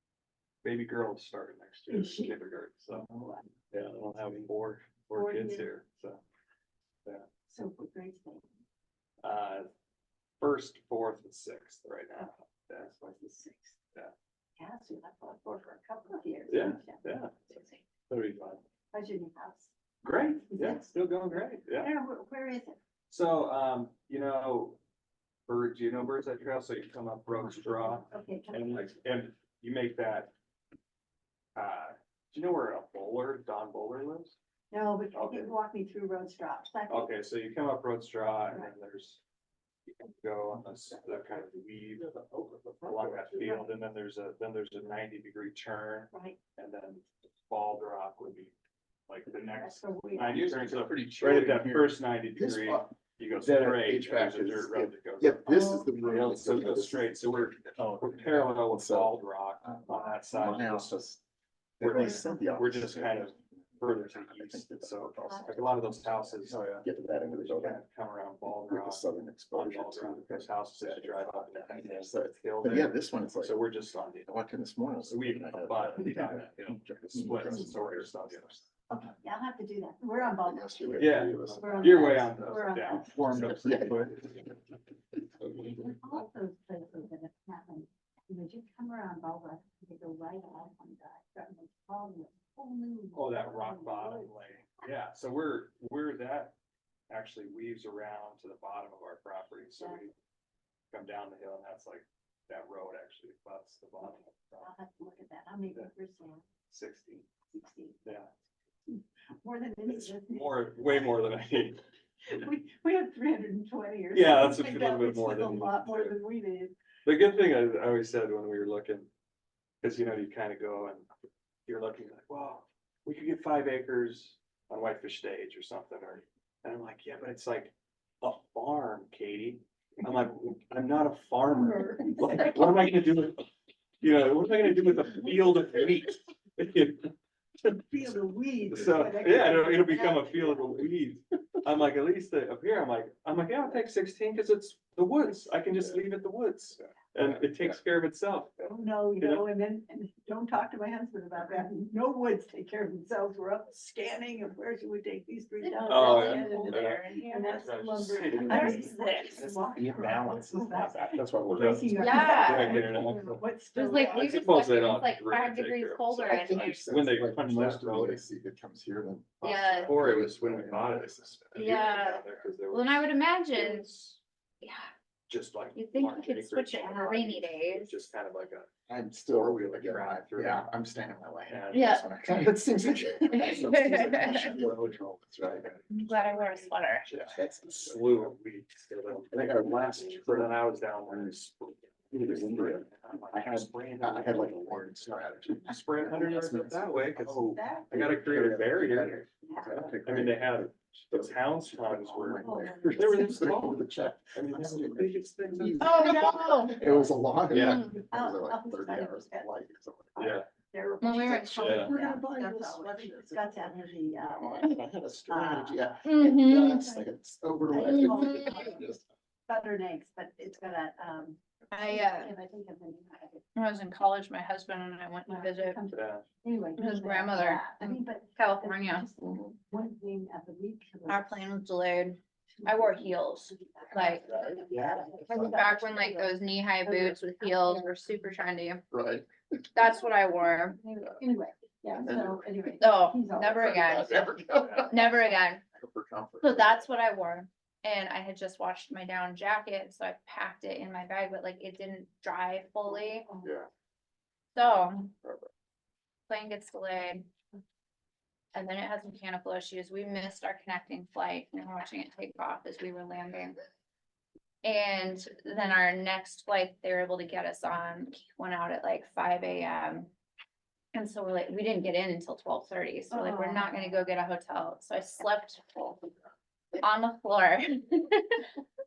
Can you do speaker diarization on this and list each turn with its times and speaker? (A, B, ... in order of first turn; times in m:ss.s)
0:00.6-0:03.1 A
0:01.9-0:02.4 B
0:02.9-0:03.5 B
0:03.7-0:06.2 A
0:05.1-0:05.7 B
0:07.5-0:08.5 B
0:09.2-0:09.7 A
0:10.4-0:13.1 A
0:13.0-0:13.8 B
0:14.6-0:17.8 B
0:16.5-0:18.6 A
0:18.9-0:19.7 B
0:20.0-0:21.9 A
0:20.4-0:20.9 B
0:21.7-0:22.8 B
0:23.1-0:24.8 A
0:25.5-0:30.3 A
0:28.0-0:28.9 B
0:31.6-0:34.4 A
0:34.7-0:37.2 B
0:35.1-0:35.5 A
0:36.9-0:39.2 A
0:39.9-0:42.0 A
0:41.0-0:43.7 C
0:42.8-0:48.5 A
0:46.1-0:46.4 B
0:49.1-1:01.0 A
0:49.5-0:50.5 B
0:50.3-1:01.2 C
0:55.5-0:55.9 B
1:01.8-1:07.8 C
1:01.8-1:06.9 A
1:07.4-1:14.4 A
1:08.5-1:13.6 C
1:14.2-1:19.2 C
1:15.0-1:18.7 A
1:19.2-1:23.4 B
1:20.2-1:26.3 C
1:21.0-1:24.6 A
1:26.0-1:34.4 B
1:33.1-1:36.5 A
1:37.1-1:40.1 A
1:39.8-1:40.0 B
1:40.9-1:44.7 A
1:44.0-1:46.4 B
1:46.7-1:47.3 A
1:47.5-1:48.0 B
1:48.0-1:48.3 A
1:48.9-1:50.7 B
1:49.9-1:51.8 A
1:52.3-1:56.8 B
1:54.1-1:56.2 A
1:57.0-1:59.1 A
1:59.8-2:01.1 A
2:01.7-2:13.5 A
2:11.5-2:12.6 B
2:14.0-2:17.8 A
2:17.9-2:20.6 B
2:18.7-2:28.5 A
2:25.2-2:25.6 B
2:25.8-2:26.0 C
2:26.8-2:27.8 C
2:28.6-2:44.3 B
2:29.2-2:29.5 A
2:35.6-2:37.8 D
2:35.9-2:39.0 A
2:36.0-2:36.4 C
2:38.3-2:42.8 C
2:38.4-2:39.2 D
2:41.5-2:48.2 A
2:42.0-2:42.8 D
2:43.8-2:46.9 D
2:46.3-2:51.9 C
2:49.4-2:50.0 D
2:49.4-2:54.2 A
2:51.6-2:53.9 D
2:54.6-2:54.9 D
2:55.3-2:58.7 A
2:55.8-2:58.0 D
2:58.9-3:05.8 C
2:59.3-3:00.7 A
3:01.5-3:19.3 A
3:01.7-3:02.1 D
3:03.3-3:04.5 D
3:05.9-3:07.1 D
3:07.1-3:08.3 C
3:09.2-3:11.4 C
3:12.1-3:30.4 C
3:17.5-3:18.0 B
3:19.8-3:26.2 A
3:22.4-3:23.2 B
3:25.8-3:26.8 D
3:25.8-3:27.0 B
3:26.9-3:27.8 A
3:27.5-3:28.0 D
3:27.8-3:29.5 B
3:30.2-3:30.5 A
3:30.2-3:34.8 B
3:31.0-3:31.8 D
3:31.2-3:39.0 C
3:31.6-3:31.9 A
3:35.3-3:37.1 B
3:36.0-3:36.9 D
3:37.7-3:38.9 B
3:37.8-3:38.7 D
3:39.5-3:43.5 B
3:41.7-3:42.3 D
3:43.6-3:45.8 D
3:45.3-3:51.5 B
3:45.9-3:46.3 A
3:46.8-3:49.6 D
3:51.1-3:54.3 D
3:52.6-3:56.3 B
3:54.0-3:55.9 C
3:55.3-3:58.8 D
3:56.8-3:58.2 B
3:58.9-3:59.8 C
3:59.8-4:01.0 D
4:01.2-4:03.8 B
4:01.9-4:02.5 C
4:02.8-4:05.6 D
4:03.5-4:06.9 C
4:06.4-4:13.3 D
4:13.0-4:13.6 B
4:14.6-4:15.1 D
4:15.2-4:15.5 C
4:16.3-4:17.3 D
4:18.5-4:23.6 D
4:24.6-4:30.1 D
4:30.9-4:36.1 D
4:33.1-4:34.1 B
4:36.8-4:38.4 D